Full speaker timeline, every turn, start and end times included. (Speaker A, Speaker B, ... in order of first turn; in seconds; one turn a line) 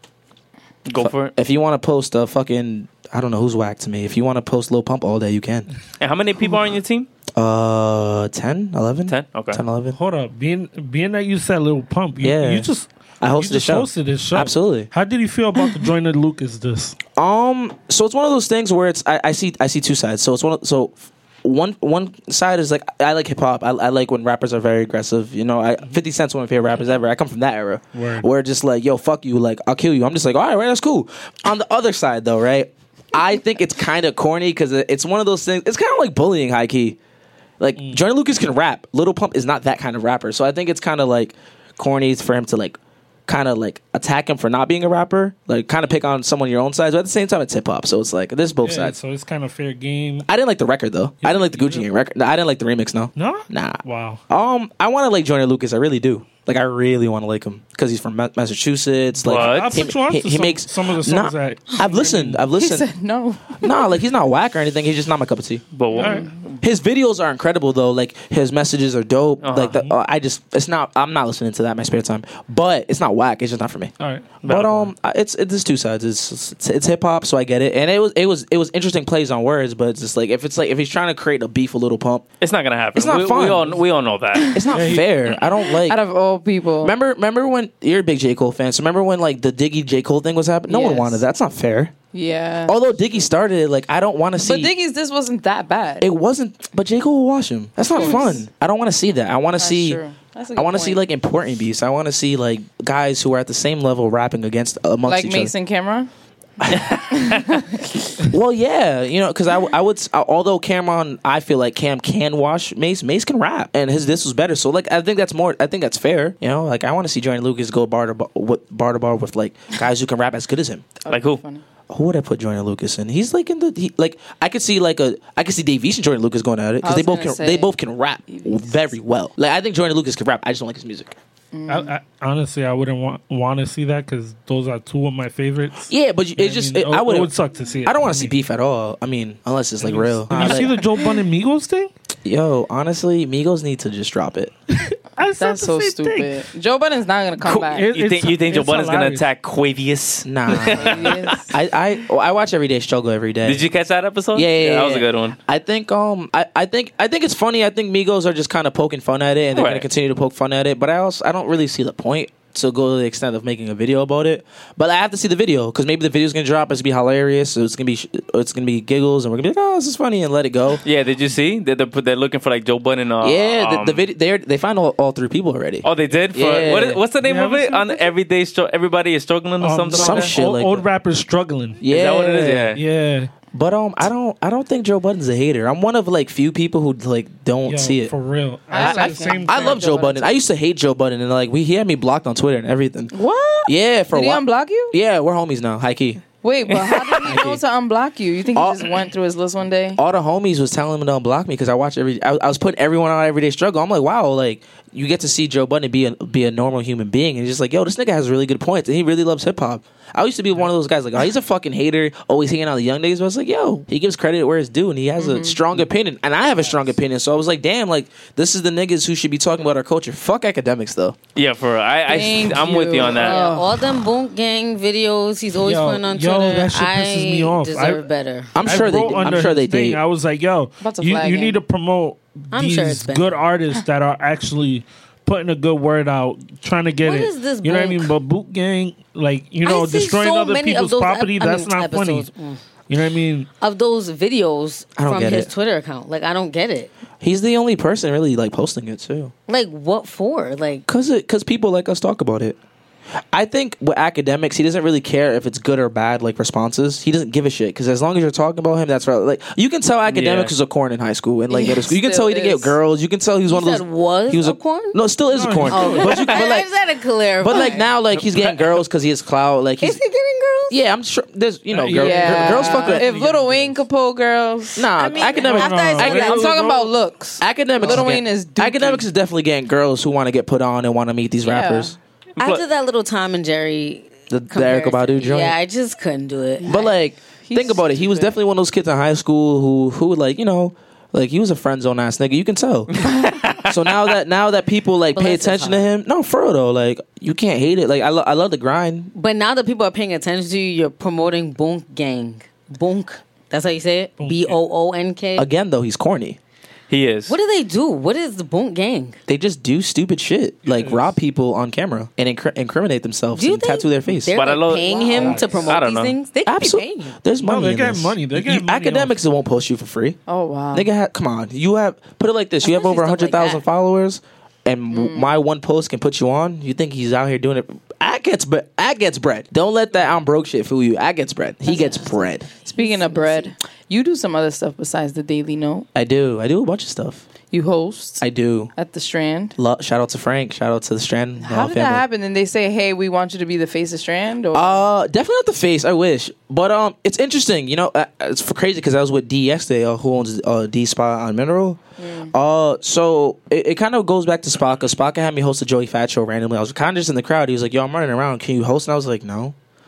Speaker A: 0.9-1.3
Speaker B: 1.0-5.7
Speaker A: 6.0-7.1
Speaker B: 7.3-10.0
Speaker A: 9.1-9.6
Speaker C: 9.9-17.0
Speaker B: 12.2-12.7
Speaker B: 13.2-14.9
Speaker B: 17.2-37.0
Speaker C: 27.9-28.3
Speaker B: 37.6-49.0
Speaker C: 48.6-50.3
Speaker B: 50.3-62.9
Speaker C: 51.2-51.9
Speaker C: 53.2-54.2
Speaker C: 59.2-62.5
Speaker A: 59.2-59.9
Speaker D: 62.5-64.0
Speaker B: 63.6-65.6
Speaker A: 65.7-66.6
Speaker D: 65.9-66.3
Speaker C: 66.0-66.3
Speaker B: 66.6-82.2
Speaker A: 69.4-69.7
Speaker C: 74.0-74.9
Speaker A: 74.4-74.7
Speaker A: 82.4-84.7
Speaker B: 83.0-83.7
Speaker D: 84.3-85.0
Speaker B: 84.5-86.0
Speaker C: 84.7-85.1
Speaker D: 85.7-86.9
Speaker B: 86.8-91.9
Speaker D: 90.7-91.2
Speaker D: 92.1-92.8
Speaker B: 92.7-94.7
Speaker D: 94.4-96.1
Speaker B: 96.0-100.0
Speaker D: 97.9-98.5
Speaker D: 99.6-101.0
Speaker B: 100.5-105.5
Speaker D: 105.0-106.1
Speaker B: 106.6-107.0
Speaker A: 106.8-107.4
Speaker D: 106.9-107.7
Speaker B: 108.2-120.8
Speaker D: 121.0-121.6
Speaker A: 121.1-121.4
Speaker B: 121.9-131.2
Speaker D: 126.8-127.7
Speaker D: 128.3-128.8
Speaker D: 131.5-131.9
Speaker C: 131.7-138.3
Speaker B: 135.9-137.3
Speaker B: 137.8-140.8
Speaker C: 139.8-141.9
Speaker B: 142.2-144.5
Speaker C: 144.7-146.4
Speaker D: 145.4-147.9
Speaker A: 147.4-151.3
Speaker C: 147.4-149.2
Speaker B: 150.2-153.7
Speaker D: 150.6-151.6
Speaker A: 153.4-155.4
Speaker B: 154.3-170.8
Speaker A: 159.5-159.9
Speaker A: 170.8-174.0
Speaker B: 173.2-177.0
Speaker A: 175.8-180.4
Speaker C: 177.2-178.1
Speaker C: 179.6-181.8
Speaker B: 179.9-180.8
Speaker B: 181.8-182.8
Speaker A: 181.9-182.8
Speaker C: 182.7-183.3
Speaker B: 183.5-188.1
Speaker C: 187.7-189.8
Speaker D: 188.7-190.4
Speaker B: 188.7-193.1
Speaker D: 193.1-194.9
Speaker B: 193.7-196.2
Speaker D: 196.4-200.0
Speaker B: 197.2-197.6
Speaker B: 198.6-199.1
Speaker B: 200.0-221.2
Speaker D: 215.2-215.6
Speaker A: 221.3-223.4
Speaker D: 222.1-223.9
Speaker E: 223.1-229.1
Speaker C: 225.6-228.1
Speaker B: 228.6-230.0
Speaker C: 228.6-242.3
Speaker D: 230.8-231.6
Speaker E: 232.5-233.3
Speaker E: 237.0-238.2
Speaker E: 239.6-242.6
Speaker C: 242.9-243.5
Speaker E: 243.6-246.9
Speaker B: 245.0-245.5
Speaker B: 247.2-249.3
Speaker E: 249.5-250.8
Speaker B: 250.9-252.6
Speaker B: 253.3-266.7
Speaker A: 260.1-260.5
Speaker D: 261.5-262.8
Speaker E: 263.5-265.0
Speaker C: 265.3-266.4
Speaker E: 265.6-267.9
Speaker B: 267.4-270.0
Speaker A: 268.1-268.8
Speaker E: 269.8-270.8
Speaker B: 270.7-273.1
Speaker C: 271.7-273.8
Speaker D: 271.9-274.9
Speaker B: 274.8-276.4
Speaker E: 274.9-276.5
Speaker C: 275.4-276.9
Speaker D: 276.0-279.1
Speaker B: 277.4-282.0
Speaker C: 277.8-278.1
Speaker D: 281.4-282.0
Speaker A: 282.4-282.6
Speaker E: 282.4-286.9
Speaker B: 284.3-285.6
Speaker B: 286.6-292.9
Speaker D: 287.4-288.4
Speaker A: 292.9-294.1
Speaker B: 293.6-299.1
Speaker E: 295.1-295.9
Speaker E: 299.1-305.5
Speaker C: 304.2-304.6
Speaker B: 305.4-306.4
Speaker A: 306.9-307.4
Speaker E: 307.3-309.2
Speaker B: 309.3-314.3
Speaker C: 310.6-311.1
Speaker E: 313.3-317.2
Speaker A: 314.4-316.1
Speaker C: 315.1-315.7
Speaker B: 316.4-320.2
Speaker C: 317.4-319.2
Speaker D: 320.3-320.9
Speaker B: 320.7-332.5
Speaker E: 322.6-323.6
Speaker D: 324.9-325.4
Speaker E: 331.7-333.5
Speaker D: 331.7-332.1
Speaker D: 332.6-335.9
Speaker B: 335.9-337.2
Speaker D: 337.5-338.2
Speaker B: 338.2-338.7
Speaker D: 338.8-339.6
Speaker B: 339.6-342.0
Speaker D: 341.4-344.9
Speaker B: 344.5-359.6
Speaker D: 352.0-352.3